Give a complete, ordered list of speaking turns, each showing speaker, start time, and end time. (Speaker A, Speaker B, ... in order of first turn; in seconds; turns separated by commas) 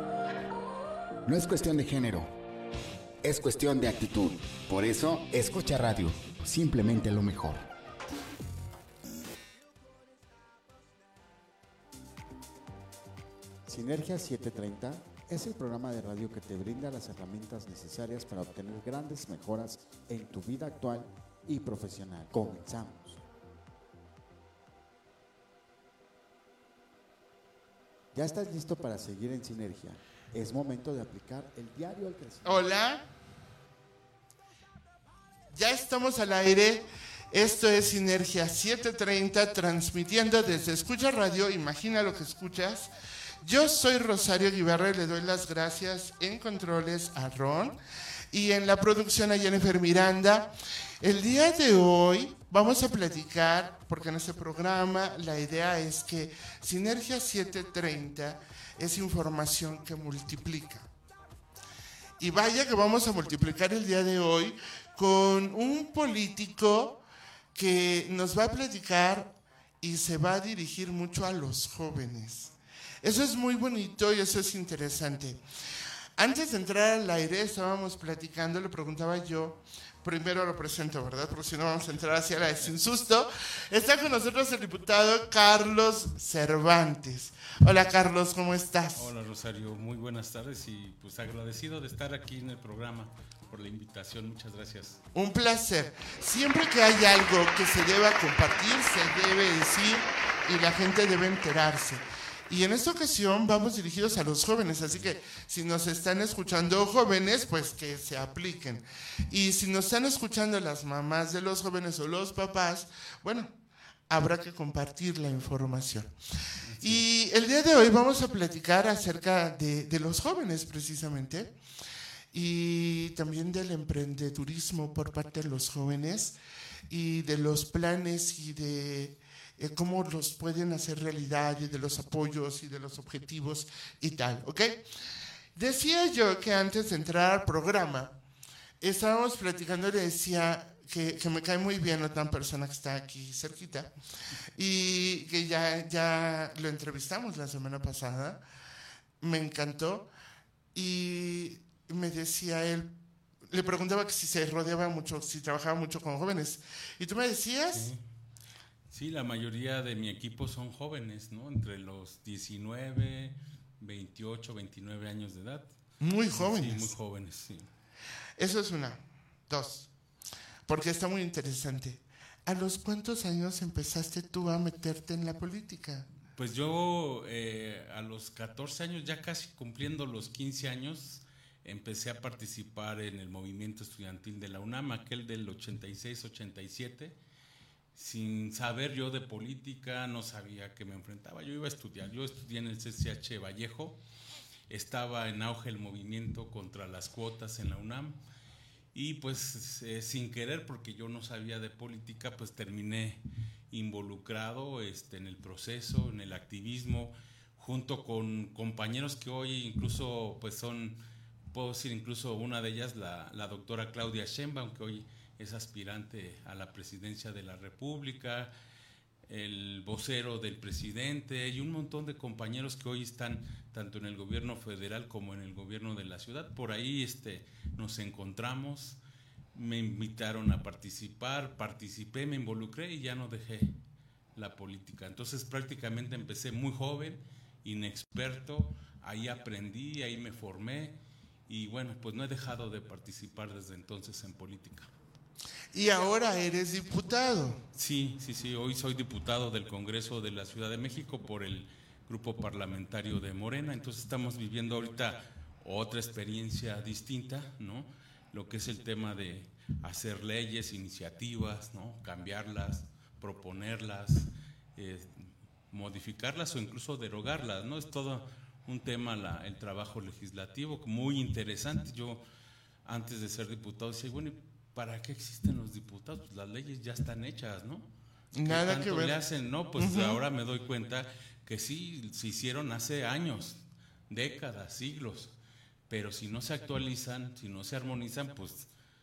Speaker A: 1.2-2.3, Speaker A: 3.2-7.6, Speaker B: 13.7-23.2, Speaker B: 28.1-32.5, Speaker C: 32.4-33.0, Speaker C: 35.5-42.9, Speaker C: 43.4-47.8, Speaker C: 48.3-60.9, Speaker C: 62.2-67.0, Speaker C: 67.5-75.4, Speaker C: 76.2-89.1, Speaker D: 88.9-95.0, Speaker C: 95.1-113.5, Speaker C: 114.1-116.1, Speaker D: 116.6-117.0, Speaker C: 116.8-121.5, Speaker C: 122.3-126.3, Speaker C: 126.9-134.8, Speaker C: 135.5-138.1, Speaker C: 138.8-143.9, Speaker C: 144.6-148.4, Speaker C: 149.2-150.1, Speaker C: 150.7-152.9, Speaker C: 153.5-157.9, Speaker D: 157.7-158.0, Speaker D: 158.9-165.7, Speaker C: 166.0-166.9, Speaker D: 166.3-167.7, Speaker C: 168.4-169.9, Speaker C: 170.7-176.1, Speaker D: 176.3-187.1, Speaker D: 187.9-194.0, Speaker D: 194.7-198.2, Speaker D: 198.9-211.0, Speaker D: 211.5-218.5, Speaker D: 219.3-229.0, Speaker D: 229.5-233.8, Speaker D: 234.3-240.9, Speaker D: 241.5-244.9, Speaker C: 245.7-247.6, Speaker D: 247.7-272.2, Speaker D: 272.8-277.9, Speaker C: 278.3-279.2, Speaker D: 278.4-285.3, Speaker C: 279.8-280.2, Speaker D: 285.9-288.7